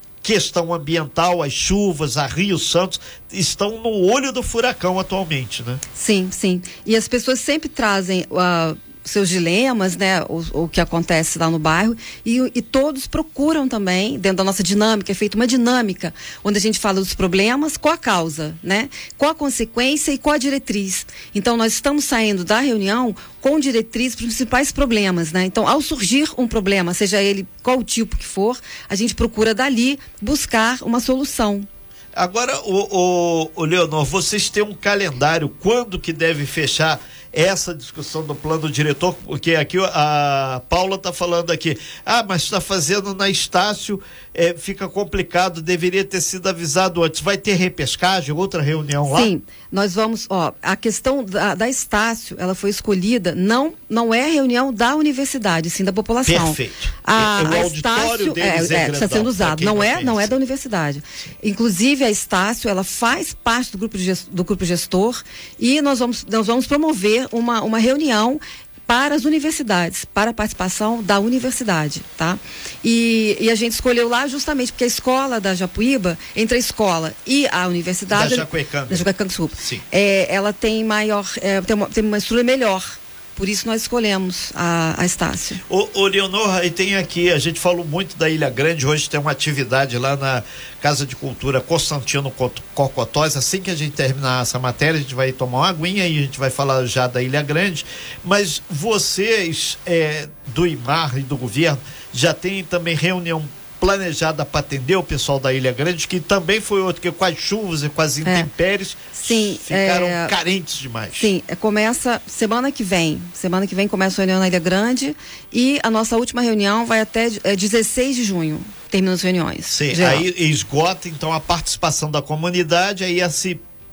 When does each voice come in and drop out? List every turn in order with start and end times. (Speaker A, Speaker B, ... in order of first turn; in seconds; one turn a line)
Speaker A: 0.2-5.8
Speaker B: 5.9-31.7
Speaker A: 32.1-49.3
Speaker B: 49.1-85.6
Speaker A: 56.2-60.3
Speaker A: 78.1-79.0
Speaker A: 79.6-79.8
Speaker A: 85.7-111.3
Speaker B: 109.1-110.3
Speaker B: 111.2-120.2
Speaker A: 119.7-123.6